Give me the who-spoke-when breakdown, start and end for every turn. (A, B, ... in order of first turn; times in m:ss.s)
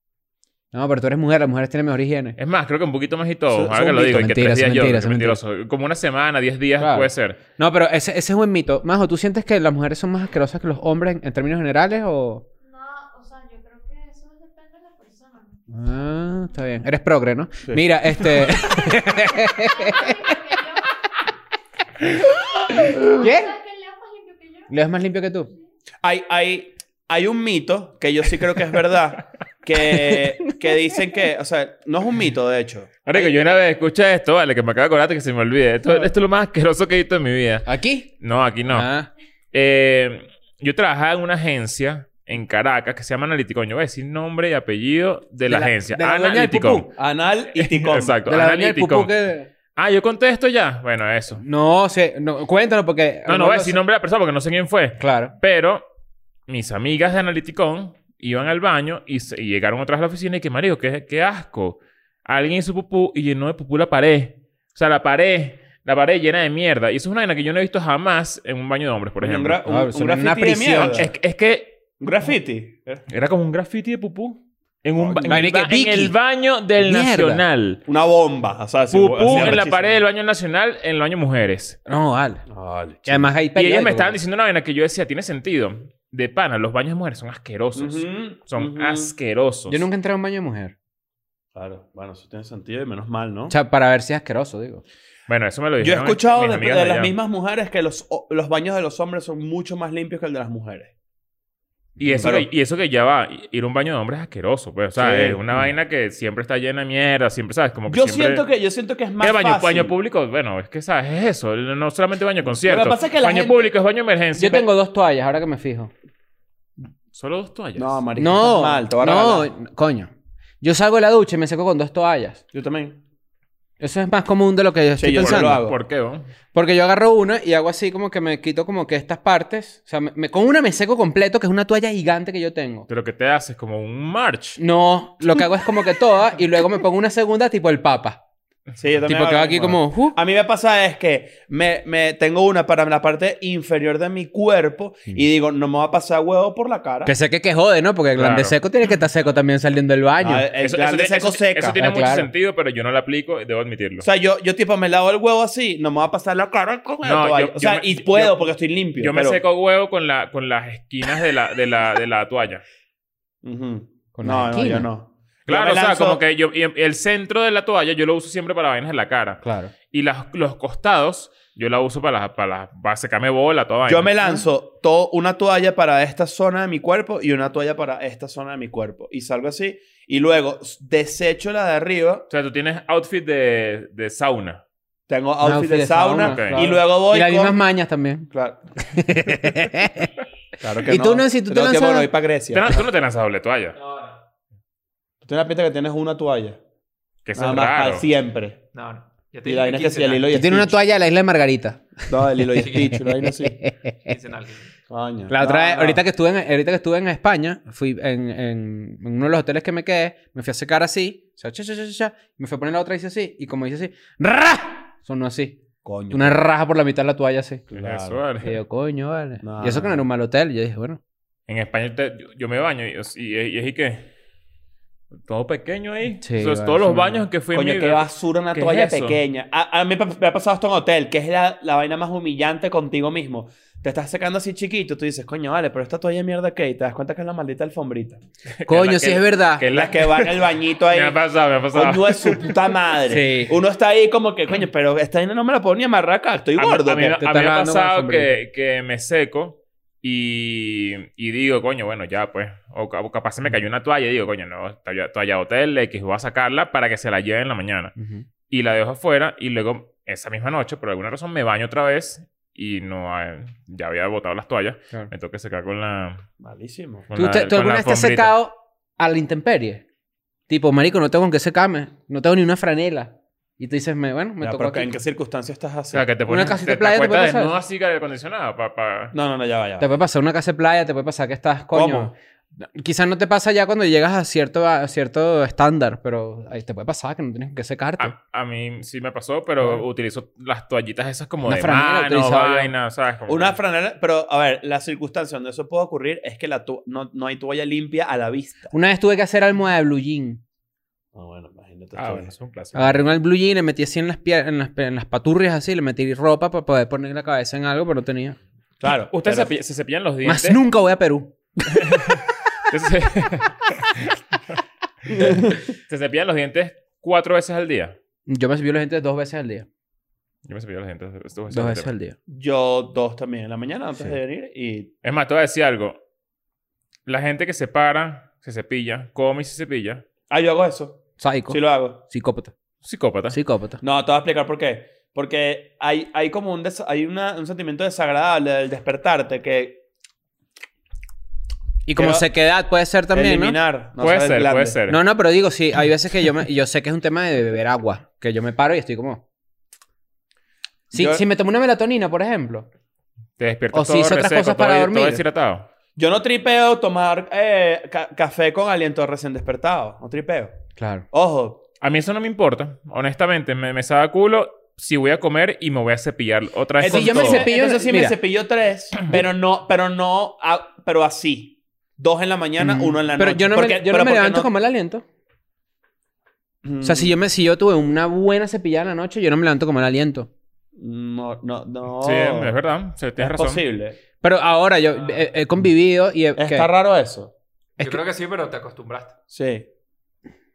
0:00.7-0:02.4 A
0:02.4-0:07.4 B
0:03.5-0:04.0 C
0:03.7-0:05.4 A
0:06.8-0:12.4 A
0:12.6-0:15.7 D
0:15.7-0:20.4 A
0:18.7-0:21.2 D
0:22.6-0:24.7 D
0:22.7-0:23.5 A
0:24.7-0:25.5 A
0:26.0-0:33.4 C
0:29.9-0:30.7 A
0:33.0-0:37.7 B
0:37.6-0:38.1 A
0:38.2-0:38.9 B
0:38.7-0:39.1 A
0:39.5-0:46.9 B
0:45.5-0:46.9 A
0:46.9-0:48.2 C
0:47.6-0:49.1 B
0:48.3-0:49.5 A
0:49.8-0:51.4 B
0:51.4-0:53.8 A
0:53.3-0:55.8 B
0:55.0-0:55.3 A
0:56.5-1:09.6 B
1:09.2-1:11.1 C
1:09.6-1:11.0 A
1:10.8-1:11.8 B
1:12.0-1:13.0 C
1:13.1-1:17.8 B
1:15.0-1:15.5 C
1:15.3-1:16.1 A
1:16.8-1:17.4 A
1:17.9-1:20.0 C
1:18.9-1:21.8 B
1:21.9-1:22.4 A
1:22.5-1:23.3 C
1:23.0-1:24.2 A
1:23.5-1:29.8 B
1:27.7-1:29.1 C
1:29.7-1:30.7 A
1:31.5-1:33.5 C
1:33.5-1:34.8 A
1:35.3-1:37.1 B
1:35.8-1:40.9 C
1:42.0-1:48.4 B
1:42.2-1:42.5 C
1:45.0-1:45.4 C
1:47.9-1:49.9 C
1:49.2-1:54.7 B
1:52.5-1:53.7 C
1:54.4-1:55.9 A
1:57.1-1:58.0 B
1:57.8-1:59.5 C
1:58.2-2:02.4 A
2:02.5-2:03.0 C
2:03.8-2:05.6 A
2:05.0-2:05.8 C
2:05.2-2:06.3 B
2:06.5-2:12.9 A
2:12.9-2:14.6 B
2:14.6-2:18.2 A
2:18.8-2:27.1 C
2:19.1-2:20.2 A
2:27.0-2:30.5 A
2:28.2-2:28.6 B
2:30.2-2:31.8 C
2:30.6-2:34.1 B
2:31.8-2:32.3 A
2:34.0-2:39.4 C
2:37.0-2:42.6 B
2:43.4-2:46.2 C
2:44.1-2:44.9 A
2:45.5-2:54.1 B
2:49.4-2:49.7 A
2:53.8-3:02.3 C
3:02.3-3:04.6 B
3:05.1-3:07.6 C
3:05.4-3:08.3 A
3:06.2-3:06.6 B
3:08.3-3:08.6 C
3:08.8-3:10.1 A
3:10.6-3:12.8 C
3:10.8-3:12.1 A
3:12.5-3:13.8 B
3:13.8-3:14.2 E
3:15.2-3:16.6 C
3:17.2-3:18.0 B
3:17.3-3:18.6 C
3:18.7-3:20.3 E
3:19.4-3:20.8 C
3:20.3-3:24.1 A
3:22.1-3:23.6 C
3:24.0-3:24.7 E
3:24.9-3:26.0 C
3:25.3-3:35.6 A
3:35.8-3:36.4 C
3:36.1-3:37.6 A
3:37.7-3:38.2 C
3:37.7-3:38.6 B
3:38.4-3:41.0 A
3:39.4-3:40.0 C
3:41.5-3:44.1 B
3:45.2-3:49.2 B
3:46.2-3:47.2 A
3:47.5-3:58.2 C
3:58.5-4:02.6 B
3:58.7-3:59.7 A
3:59.7-4:07.2 C
4:03.1-4:03.5 A
4:06.6-4:17.9 B
4:07.1-4:08.3 A
4:18.0-4:18.2 A
4:18.5-4:26.2 B
4:26.4-4:27.1 C
4:27.1-4:28.3 B
4:27.1-4:29.8 A
4:30.5-4:34.9 A
4:34.4-4:36.0 C
4:35.9-4:39.1 B
4:36.3-4:37.5 A
4:39.1-4:39.9 C
4:39.8-4:48.1 A
4:41.7-4:42.1 C
4:48.0-4:53.6 B
4:51.4-4:52.7 A
4:53.3-4:58.7 C
4:58.7-5:00.4 A
5:01.1-5:02.3 C
5:02.0-5:03.0 B
5:02.7-5:08.4 A
5:08.8-5:09.5 C
5:09.1-5:10.6 B
5:10.2-5:11.3 A
5:11.7-5:14.2 B
5:15.1-5:15.6 C
5:15.1-5:18.0 B
5:18.3-5:19.7 A
5:20.4-5:21.9 B
5:21.5-5:22.1 A
5:22.3-5:24.9 C
5:25.0-5:26.0 B
5:27.0-5:30.0 B
5:30.3-5:32.0 C
5:31.2-5:32.5 A
5:32.8-5:33.4 B
5:33.3-5:33.8 A
5:33.8-5:39.8 C
5:41.8-5:43.6 A
5:42.0-5:42.3 C
5:43.1-5:44.8 C
5:44.0-5:45.0 B
5:44.9-5:49.2 A
5:50.9-5:52.7 A
5:50.9-5:51.2 C
5:53.4-5:55.7 B
5:53.7-5:55.2 A
5:56.0-6:00.6 C
6:00.8-6:01.0 A
6:01.1-6:01.6 C
6:01.8-6:07.4 B
6:06.8-6:14.5 C
6:06.8-6:08.2 A
6:12.6-6:15.0 A
6:16.6-6:17.1 C
6:16.8-6:20.3 A
6:20.8-6:22.5 C
6:22.0-6:23.6 B
6:23.2-6:24.0 C
6:24.2-6:26.7 A
6:25.0-6:25.3 E
6:26.4-6:27.3 C
6:27.8-6:28.0 A
6:27.8-6:29.1 E
6:29.3-6:29.6 C